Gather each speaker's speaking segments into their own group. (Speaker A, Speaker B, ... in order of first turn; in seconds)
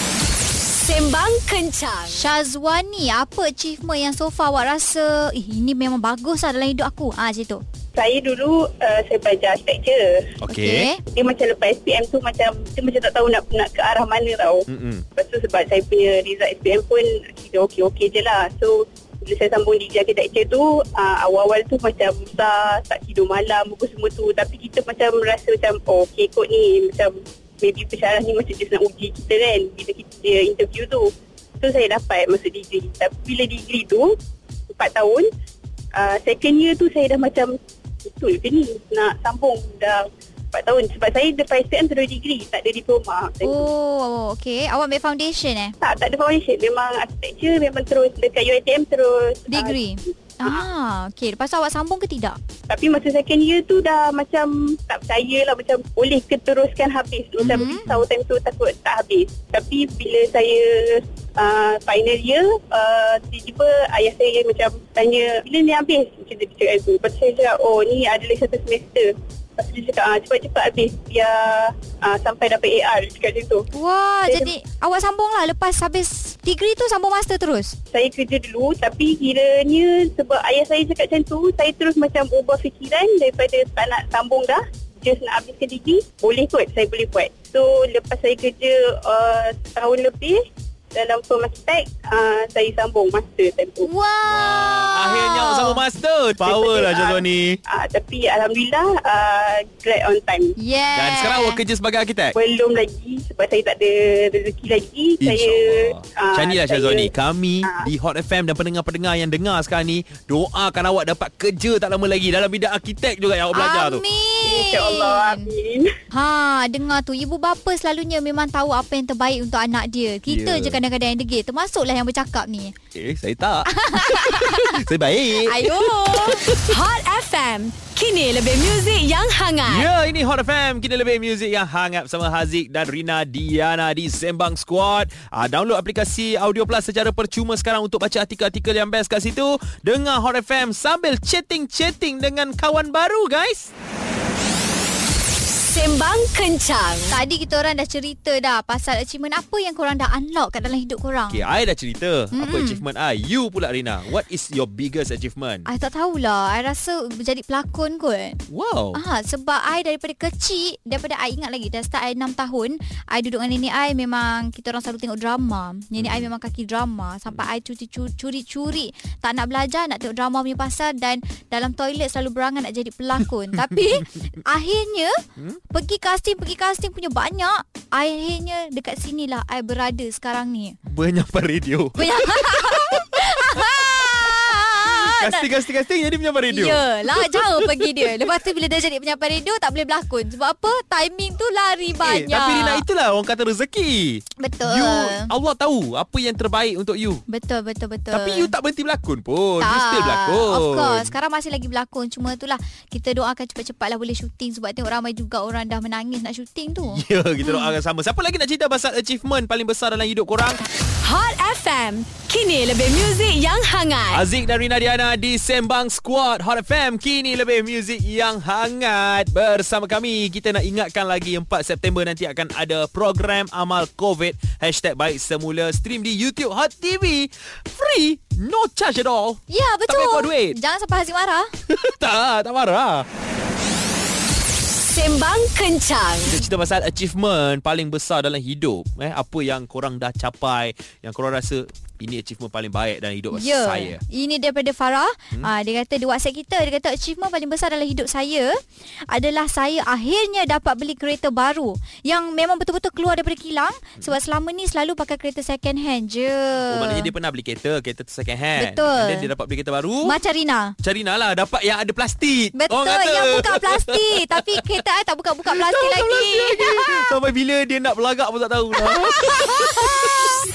Speaker A: 0.8-2.3, 126.7-129.9, 145.7-147.2, 211.0-214.2, 234.8-236.4, 269.0-270.1
Speaker B: 2.1-7.6, 10.5-11.0, 43.4-45.8, 49.5-52.4, 57.5-58.0, 73.7-77.8, 93.8-95.8, 100.6-101.6, 113.5-115.5, 116.1-122.8, 123.7-124.7, 125.5-126.5, 147.1-151.4, 152.3-152.8, 155.7-158.4, 158.9-175.2, 175.7-180.8, 182.0-185.5, 186.5-192.8, 194.4-195.3, 197.3-198.5, 199.6-207.8, 229.5-231.5, 243.3-257.1, 258.6-259.3, 260.0-260.8, 262.6-267.1
Speaker C: 8.0-10.3, 11.1-14.7, 15.2-34.1, 34.7-35.3, 36.0-37.5, 38.1-43.7, 45.8-50.7, 52.7-73.7, 74.3-74.5, 77.9-90.4, 90.9-93.9, 96.4-100.5, 102.3-107.1, 114.5-115.9
Speaker D: 10.4-10.9, 14.7-15.1, 57.4-57.7, 94.3-97.6, 100.9-102.3, 105.2-114.0, 120.3-120.8, 122.9-126.8, 129.7-143.7, 151.3-155.7, 158.5-159.0, 166.0-166.3, 180.9-183.1, 184.8-188.0, 192.0-197.2, 198.1-201.1, 206.9-210.6, 214.1-230.6, 231.7-233.1, 236.2-244.0, 256.7-260.1, 260.8-264.0, 265.5-269.4